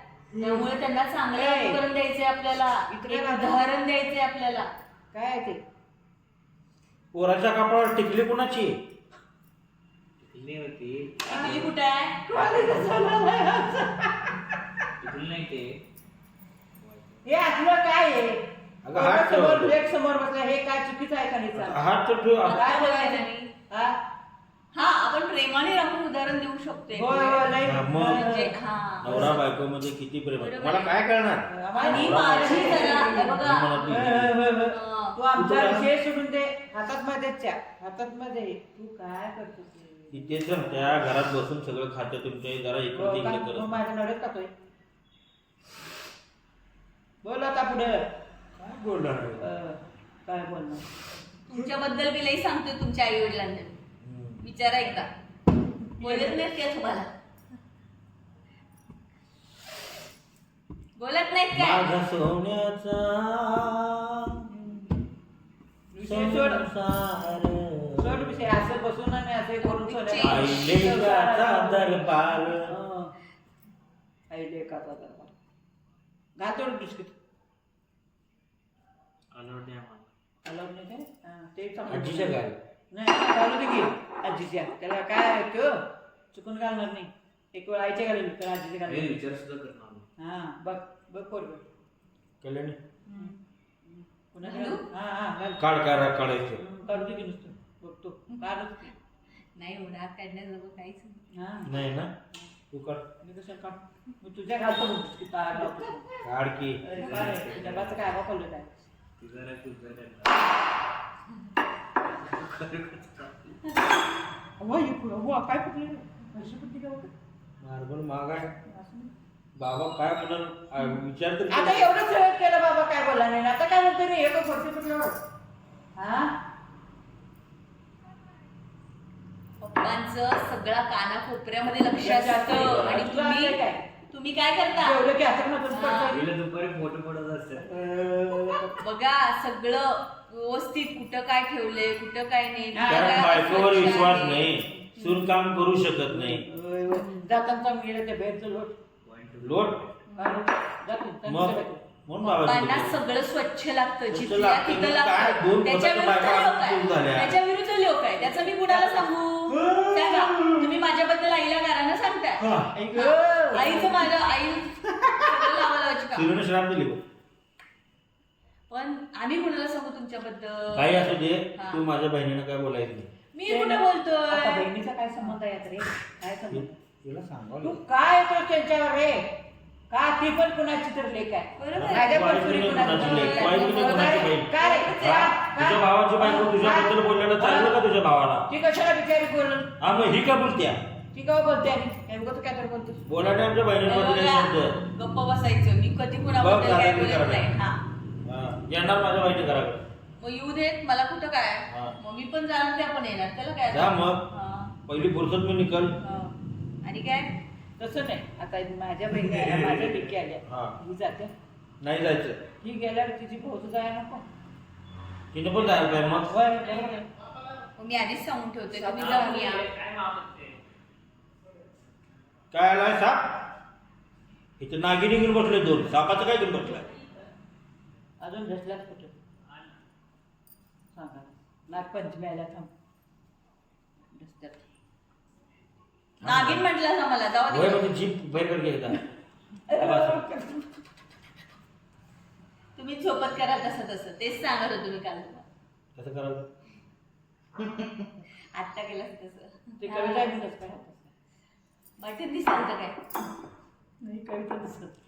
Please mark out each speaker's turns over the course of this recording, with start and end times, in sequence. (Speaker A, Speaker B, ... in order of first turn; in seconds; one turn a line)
Speaker A: 0.3-4.7
Speaker B: 0.4-0.7
Speaker B: 1.3-1.8
Speaker B: 2.9-3.5
Speaker B: 5.1-5.6
Speaker C: 7.1-8.8
Speaker D: 10.2-11.6
Speaker A: 11.2-12.2
Speaker B: 11.3-11.7
Speaker B: 12.3-14.3
Speaker D: 15.0-15.8
Speaker D: 16.8-17.2
Speaker B: 17.2-21.8
Speaker C: 18.8-19.8
Speaker C: 21.6-22.7
Speaker A: 22.4-23.5
Speaker B: 22.5-24.0
Speaker A: 24.7-29.4
Speaker B: 26.9-28.6
Speaker C: 27.6-28.3
Speaker C: 29.0-34.4
Speaker B: 29.1-29.3
Speaker A: 30.4-30.9
Speaker B: 31.5-40.8
Speaker A: 31.8-34.0
Speaker A: 34.7-35.2
Speaker C: 35.3-35.9
Speaker C: 40.1-43.8
Speaker B: 43.0-44.5
Speaker B: 47.2-48.1
Speaker C: 48.6-49.5
Speaker B: 49.4-50.9
Speaker A: 51.5-53.7
Speaker C: 54.0-54.4
Speaker A: 54.4-55.1
Speaker A: 56.0-57.1
Speaker B: 56.0-56.4
Speaker A: 61.0-61.9
Speaker C: 61.5-65.0
Speaker B: 65.9-66.7
Speaker C: 66.0-68.4
Speaker B: 68.0-73.1
Speaker A: 69.6-70.5
Speaker C: 70.2-72.8
Speaker B: 74.3-75.3
Speaker B: 76.4-77.2
Speaker D: 79.3-80.1
Speaker B: 80.5-82.4
Speaker C: 81.9-82.6
Speaker B: 82.9-89.1
Speaker D: 88.9-90.1
Speaker B: 90.2-91.7
Speaker C: 92.4-92.8
Speaker A: 93.1-93.4
Speaker B: 93.1-95.6
Speaker A: 94.4-94.9
Speaker C: 95.6-96.6
Speaker B: 96.6-98.9
Speaker A: 99.5-101.3
Speaker B: 101.3-101.7
Speaker C: 101.7-102.1
Speaker C: 102.7-103.1
Speaker B: 103.2-106.2
Speaker C: 106.2-106.8
Speaker B: 106.8-108.9
Speaker D: 106.9-108.0
Speaker D: 109.2-110.5
Speaker D: 112.1-113.6
Speaker B: 114.6-117.1
Speaker C: 117.6-118.5
Speaker B: 118.7-119.1
Speaker C: 119.6-121.9
Speaker B: 121.5-125.2
Speaker B: 126.0-126.3
Speaker A: 129.6-135.0
Speaker B: 132.0-133.9
Speaker B: 134.7-136.2
Speaker A: 135.7-136.2
Speaker D: 136.1-137.7
Speaker B: 137.6-138.8
Speaker A: 138.8-144.5
Speaker B: 142.7-144.0
Speaker C: 142.9-146.4
Speaker B: 144.8-145.2
Speaker B: 146.1-148.8
Speaker D: 149.1-149.9
Speaker C: 149.4-149.9
Speaker A: 150.1-150.4
Speaker B: 150.2-151.8
Speaker C: 151.3-153.0
Speaker A: 152.2-166.3
Speaker C: 154.1-157.4
Speaker B: 158.2-159.1
Speaker C: 159.5-160.7
Speaker C: 162.4-162.7
Speaker B: 162.7-164.1
Speaker C: 166.1-167.0
Speaker A: 168.7-171.8
Speaker C: 170.8-173.1
Speaker A: 173.3-174.7
Speaker B: 173.5-176.8
Speaker C: 176.5-177.8
Speaker B: 177.6-179.3
Speaker B: 179.9-187.8
Speaker A: 181.6-185.1
Speaker C: 181.8-188.5
Speaker B: 188.5-189.7
Speaker C: 189.8-190.8
Speaker B: 191.1-193.1
Speaker C: 193.1-194.8
Speaker A: 193.8-197.8
Speaker C: 196.4-197.5
Speaker C: 198.2-199.9
Speaker A: 200.2-204.7
Speaker C: 201.7-202.0
Speaker C: 203.7-204.3
Speaker C: 204.9-206.0
Speaker A: 206.8-207.3
Speaker B: 207.8-211.3
Speaker C: 209.2-209.8
Speaker C: 210.4-210.8
Speaker C: 211.8-212.4
Speaker B: 212.6-214.2
Speaker C: 215.3-216.3
Speaker B: 216.3-217.1
Speaker A: 217.8-219.7
Speaker B: 218.7-219.7
Speaker D: 219.9-220.2
Speaker C: 222.5-223.4
Speaker C: 224.6-226.8
Speaker B: 228.2-229.1
Speaker B: 230.9-232.7
Speaker B: 234.1-234.6
Speaker C: 236.2-236.7
Speaker A: 236.2-237.9
Speaker C: 237.5-239.0
Speaker B: 239.7-240.7
Speaker C: 239.8-240.2
Speaker A: 242.8-245.4
Speaker C: 246.0-246.5
Speaker A: 248.5-250.3
Speaker B: 249.8-251.1
Speaker A: 252.0-253.0
Speaker B: 254.0-254.9